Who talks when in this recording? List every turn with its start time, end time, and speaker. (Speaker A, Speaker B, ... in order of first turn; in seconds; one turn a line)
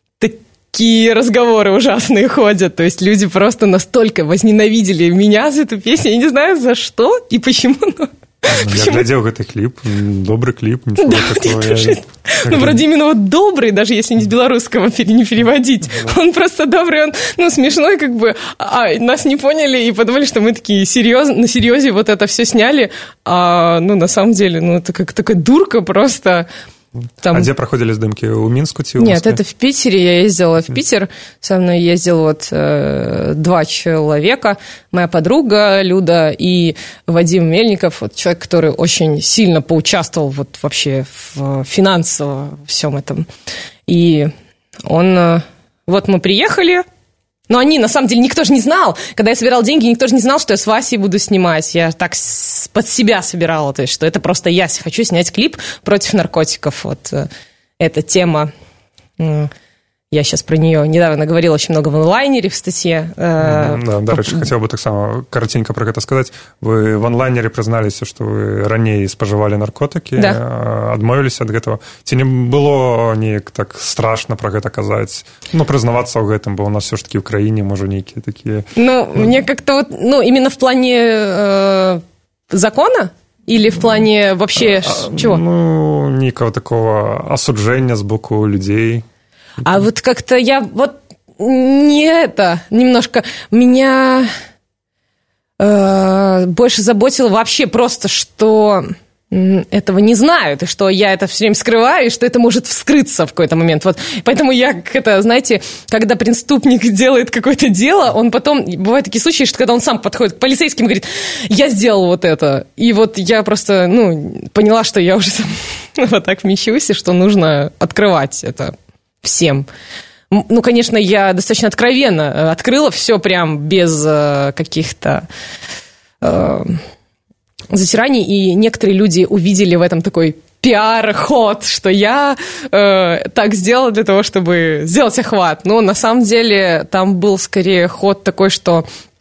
Speaker A: 0.2-9.0
Speaker B: 8.5-12.8
Speaker A: 11.0-26.5
Speaker A: 27.2-27.5
Speaker B: 27.2-29.4
Speaker A: 29.0-43.3
Speaker A: 43.9-44.3
Speaker A: 44.9-46.8
Speaker A: 47.5-57.3
Speaker A: 57.8-58.5
Speaker A: 59.2-59.5
Speaker A: 60.1-64.5
Speaker B: 63.4-79.3
Speaker A: 78.8-85.4
Speaker B: 84.6-89.0
Speaker A: 89.6-94.3
Speaker A: 95.6-119.7
Speaker A: 120.3-125.2
Speaker A: 126.2-126.8
Speaker A: 127.7-138.8